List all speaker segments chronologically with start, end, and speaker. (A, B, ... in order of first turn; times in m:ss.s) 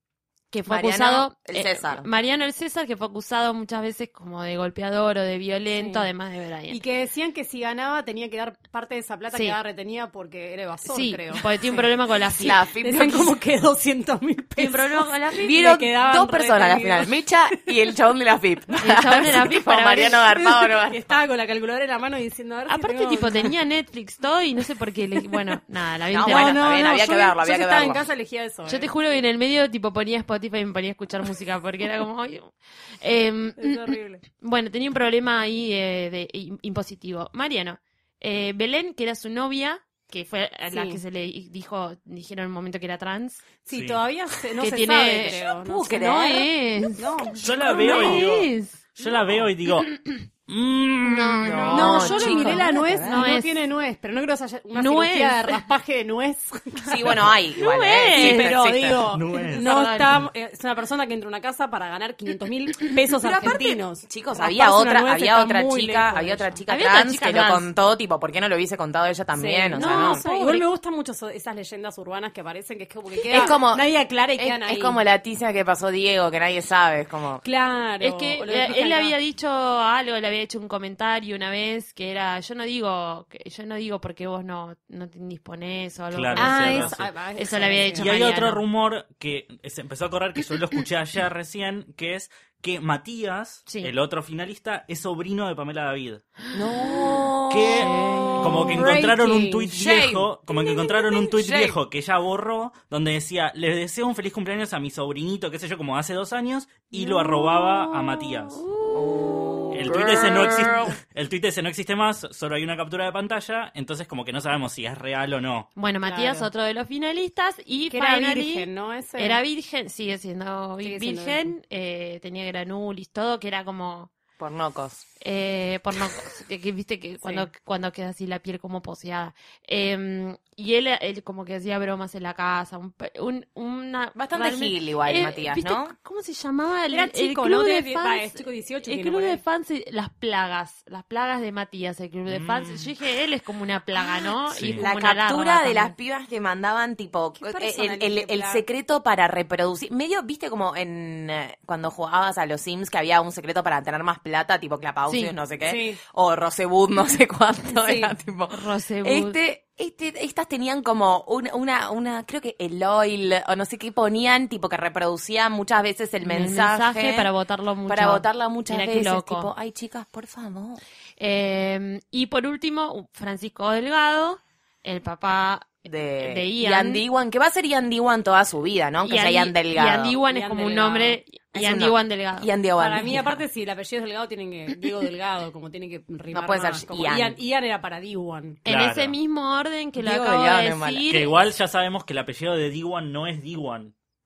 0:00.5-0:06.8 A
0:00.7-0:02.1 B
0:05.7-0:06.1 C
0:06.7-0:11.9 C
0:09.3-0:09.6 A
0:10.8-0:12.6 A
0:12.3-0:13.4 B
0:12.8-0:17.7 C
0:14.6-0:15.4 A
0:15.4-0:21.1 B
0:18.8-0:20.2 A
0:20.3-0:23.6 C
0:22.7-0:26.7 A
0:26.1-0:28.1 B
0:26.2-0:28.9 C
0:28.7-0:43.4 A
0:33.6-0:34.2 C
0:40.7-0:41.0 C
0:43.6-0:46.1 C
0:43.7-0:44.0 D
0:44.6-0:45.4 A
0:45.3-0:46.5 B
0:45.9-0:49.2 A
0:47.0-0:48.2 C
0:47.4-0:51.4 D
0:49.9-0:50.2 A
0:51.0-0:53.6 A
0:51.4-0:53.2 B
0:51.7-0:57.2 C
0:54.7-0:55.6 A
0:56.9-0:59.1 B
0:57.6-1:00.2 A
0:58.1-1:06.6 C
0:59.1-0:59.7 D
1:03.2-1:10.2 B
1:06.7-1:07.7 A
1:09.3-1:15.0 C
1:09.8-1:10.7 A
1:13.3-1:17.4 B
1:13.3-1:13.6 A
1:17.4-1:19.2 C
1:18.0-1:28.6 A
1:26.1-1:27.1 D
1:26.4-1:28.1 C
1:28.0-1:36.2 D
1:36.5-1:39.0 B
1:37.5-1:48.6 D
1:37.8-1:39.6 C
1:39.7-1:40.7 B
1:41.2-1:41.7 B
1:47.0-1:49.3 A
1:48.9-1:51.0 B
1:49.7-1:55.7 D
1:55.8-2:04.1 A
1:56.0-1:56.5 C
1:57.9-1:59.4 C
2:00.8-2:01.5 C
2:04.4-2:05.0 B
2:05.2-2:25.9 A
2:07.2-2:07.5 C
2:14.2-2:16.0 B
2:16.9-2:19.4 C
2:22.3-2:22.9 D
2:24.5-2:24.8 D
2:24.8-2:47.3 B
2:27.4-2:28.6 C
2:35.1-2:35.3 A
2:35.6-2:36.0 C
2:37.7-2:38.1 C
2:38.5-2:39.4 A
2:46.2-2:49.5 A
2:47.9-2:50.8 B
2:51.2-2:57.0 A
2:55.9-3:00.2 B
2:59.0-3:02.5 A
3:00.2-3:01.2 C
3:01.5-3:03.4 B
3:02.8-3:08.6 C
3:06.3-3:07.4 B
3:08.7-3:09.2 D
3:08.7-3:11.3 A
3:10.0-3:11.1 B
3:11.1-3:14.0 D